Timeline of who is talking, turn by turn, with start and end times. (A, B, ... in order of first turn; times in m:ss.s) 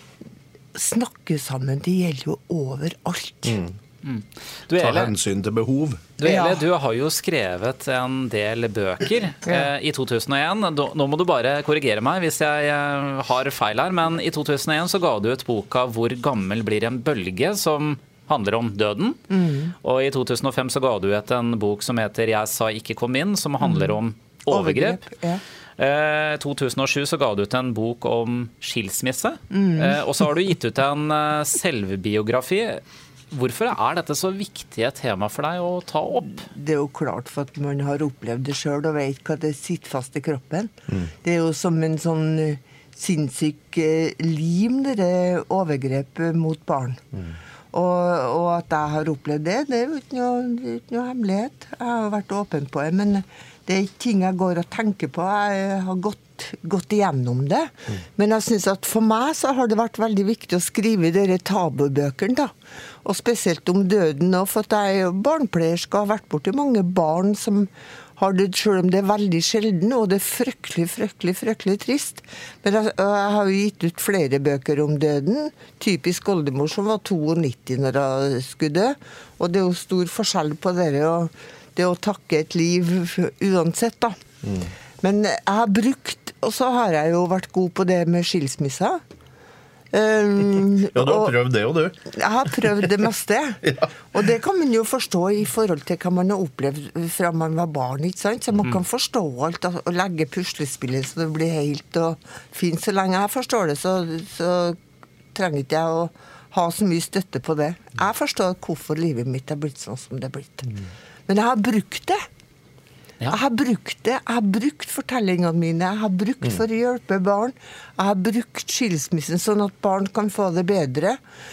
0:00.8-0:03.6 A
0:03.5-0:03.8 B
0:04.0-0:05.1 C
0:04.8-0:06.2 B
0:06.2-0:19.2 C
0:06.2-0:06.6 A
0:19.3-0:19.8 A
0:19.8-0:25.0 C
0:23.6-0:25.4 A
0:25.8-0:36.4 C
0:29.5-0:30.0 A
0:36.3-0:47.0 A
0:47.7-1:02.5 A
1:03.0-1:24.2 A
1:24.4-1:24.7 B
1:25.0-1:29.0 A
1:29.9-1:31.4 A
1:30.9-1:32.9 B
1:32.1-1:44.8 A
1:33.6-1:33.9 B
1:45.4-1:52.2 A
1:53.3-2:01.2 A